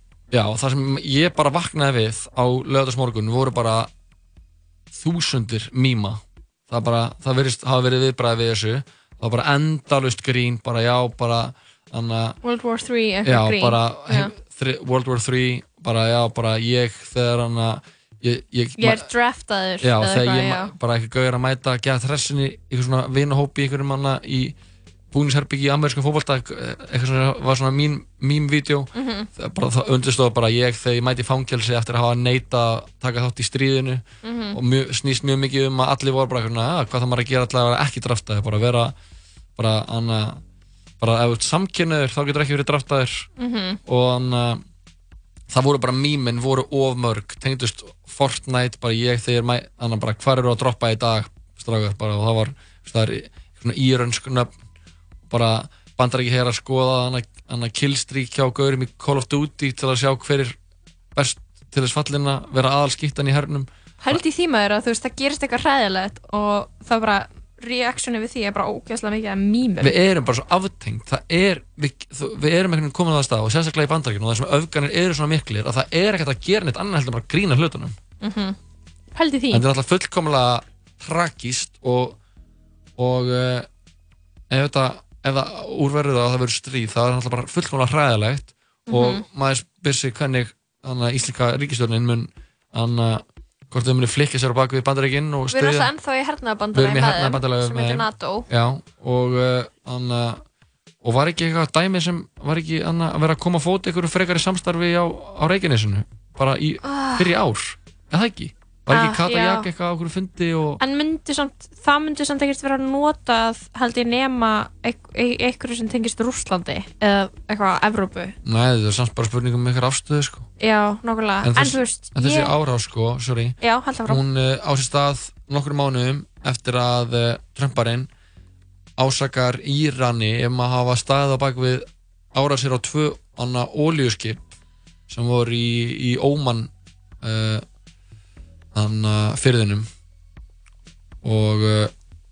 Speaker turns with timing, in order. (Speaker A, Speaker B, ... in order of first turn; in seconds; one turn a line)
Speaker A: 0.3-3.9
Speaker A: 4.9-12.4
Speaker B: 12.4-14.3
Speaker A: 13.2-19.1
Speaker B: 18.8-20.7
Speaker A: 19.8-24.6
Speaker A: 25.1-38.9
Speaker B: 28.9-29.3
Speaker B: 34.2-34.6
Speaker A: 39.5-40.4
Speaker A: 41.0-43.3
Speaker B: 43.4-43.8
Speaker A: 43.9-44.6
Speaker A: 45.5-54.5
Speaker A: 55.3-60.5
Speaker A: 61.1-64.2
Speaker B: 64.0-70.0
Speaker A: 69.8-78.0
Speaker B: 78.2-78.5
Speaker B: 79.1-79.6
Speaker A: 79.5-82.2
Speaker A: 83.0-83.7
Speaker A: 84.5-95.9
Speaker B: 88.9-89.2
Speaker B: 95.5-98.5
Speaker A: 96.7-100.4
Speaker A: 101.0-110.8
Speaker B: 106.8-107.3
Speaker B: 108.9-109.7
Speaker B: 110.8-118.3
Speaker A: 118.4-120.5
Speaker B: 120.6-122.5
Speaker A: 121.4-128.1
Speaker B: 123.6-124.2
Speaker A: 129.0-134.5
Speaker A: 135.1-136.7
Speaker A: 137.2-137.6
Speaker A: 138.7-139.9
Speaker A: 141.2-141.9